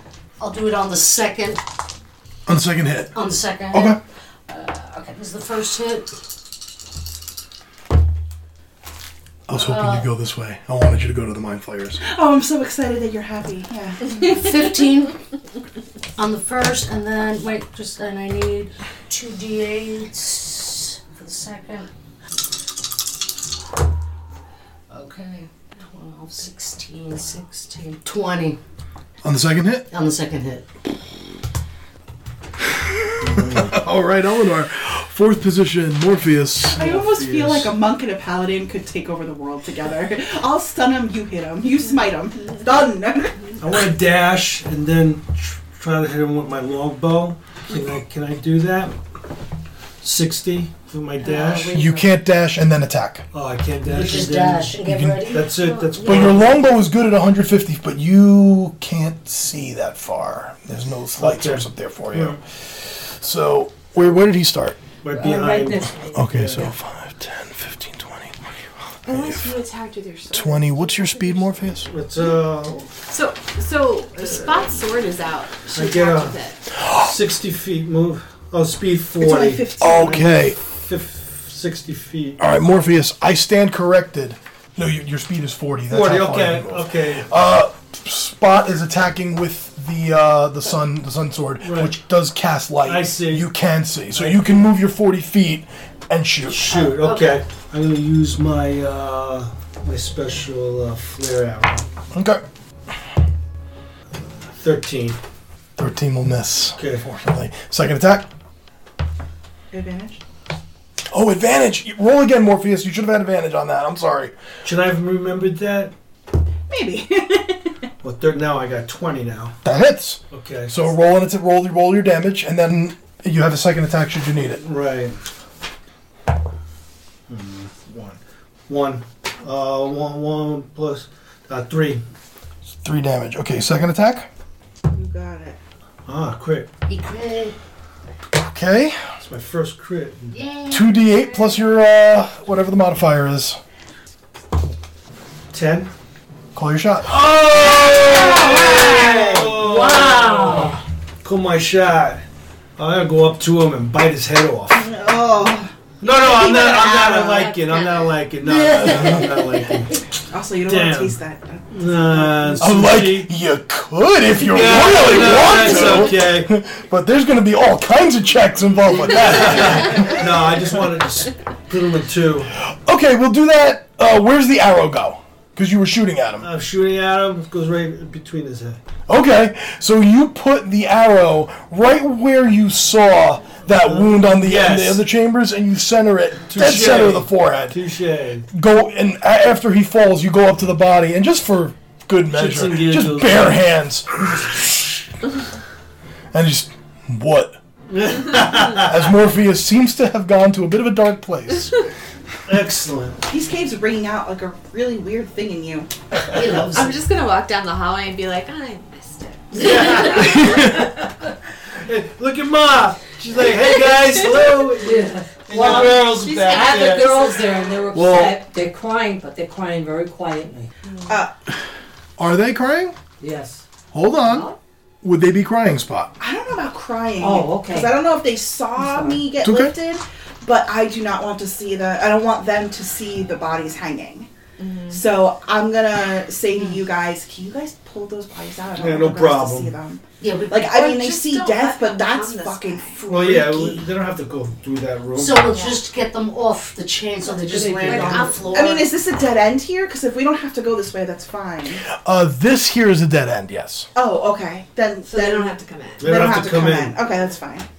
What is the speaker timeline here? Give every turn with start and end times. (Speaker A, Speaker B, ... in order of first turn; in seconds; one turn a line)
Speaker A: 0.4-1.6
Speaker B: 2.5-3.1
Speaker A: 3.1-6.2
Speaker B: 3.7-4.0
Speaker B: 9.5-12.0
Speaker A: 9.6-10.1
Speaker C: 12.0-14.4
Speaker A: 14.2-15.2
Speaker A: 16.2-21.9
Speaker A: 24.9-28.6
Speaker B: 29.2-29.9
Speaker A: 29.9-30.7
Speaker D: 33.2-33.8
Speaker B: 33.2-36.8
Speaker D: 36.7-37.7
Speaker C: 36.7-43.6
Speaker D: 43.6-49.0
Speaker D: 50.0-51.8
Speaker A: 51.2-52.1
Speaker B: 51.7-53.3
Speaker D: 53.3-56.5
Speaker A: 53.8-56.0
Speaker B: 54.9-55.4
Speaker E: 55.6-56.4
Speaker B: 56.0-64.8
Speaker D: 61.2-62.4
Speaker D: 65.0-66.7
Speaker F: 65.1-66.7
Speaker B: 66.2-69.5
Speaker E: 69.1-71.8
Speaker B: 70.3-71.9
Speaker D: 71.8-72.9
Speaker E: 73.1-76.6
Speaker D: 75.7-82.4
Speaker C: 79.2-80.2
Speaker B: 79.8-80.6
Speaker B: 82.4-96.8
Speaker D: 85.9-87.3
Speaker D: 91.6-92.0
Speaker D: 92.8-93.5
Speaker D: 94.1-94.7
Speaker D: 96.5-101.9
Speaker A: 96.7-97.4
Speaker B: 102.1-102.4
Speaker D: 104.4-105.2
Speaker B: 105.8-108.3
Speaker D: 106.8-107.1
Speaker C: 109.7-110.2
Speaker B: 111.1-114.4
Speaker D: 114.6-115.9
Speaker C: 116.7-117.8
Speaker D: 118.0-119.6
Speaker B: 119.6-124.6
Speaker D: 120.3-120.8
Speaker D: 124.5-125.2
Speaker D: 127.3-132.0
Speaker B: 132.8-134.3
Speaker C: 134.9-135.6
Speaker D: 136.1-136.7
Speaker A: 136.9-137.6
Speaker B: 138.3-139.0
Speaker D: 139.2-140.4
Speaker A: 140.3-141.5
Speaker B: 140.7-143.6
Speaker D: 145.5-145.9
Speaker B: 146.6-147.3
Speaker D: 147.1-150.7
Speaker A: 147.9-150.8
Speaker C: 148.7-149.0
Speaker F: 149.9-150.8
Speaker D: 151.2-152.2
Speaker D: 152.8-154.9
Speaker C: 154.7-157.6
Speaker D: 156.0-160.0
Speaker A: 158.4-159.9
Speaker C: 160.3-162.8
Speaker D: 160.6-161.2
Speaker D: 161.7-163.3
Speaker B: 162.6-170.2
Speaker D: 164.4-166.5
Speaker D: 169.2-172.5
Speaker B: 172.6-176.5
Speaker D: 176.4-178.8
Speaker B: 179.1-187.8
Speaker D: 183.8-185.1
Speaker D: 186.5-188.5
Speaker B: 188.5-195.1
Speaker D: 192.3-193.6
Speaker B: 196.3-197.6
Speaker D: 197.9-198.9
Speaker B: 198.7-201.8
Speaker D: 202.5-203.2
Speaker C: 203.3-205.9
Speaker A: 206.3-207.0
Speaker E: 206.7-210.8
Speaker D: 209.5-211.1
Speaker B: 210.4-210.8
Speaker D: 211.7-217.3
Speaker E: 213.5-214.4
Speaker F: 214.8-220.7
Speaker E: 215.5-217.7
Speaker B: 217.9-218.4
Speaker B: 222.2-223.0
Speaker F: 223.2-223.6
Speaker B: 223.9-224.5
Speaker F: 224.3-224.6
Speaker B: 225.0-226.2
Speaker C: 226.2-234.3
Speaker F: 227.2-228.0
Speaker F: 228.8-229.2
Speaker B: 229.4-229.7
Speaker E: 234.6-235.1
Speaker C: 234.9-243.9
Speaker A: 236.6-236.8
Speaker D: 238.8-239.8
Speaker A: 240.2-240.8
Speaker E: 240.7-243.0
Speaker D: 243.0-245.5
Speaker A: 245.2-248.9
Speaker E: 245.5-245.8
Speaker D: 247.5-248.4
Speaker E: 247.8-248.8
Speaker C: 248.5-251.8
Speaker B: 251.9-253.9
Speaker C: 253.9-257.7
Speaker E: 255.1-256.4
Speaker D: 256.0-257.0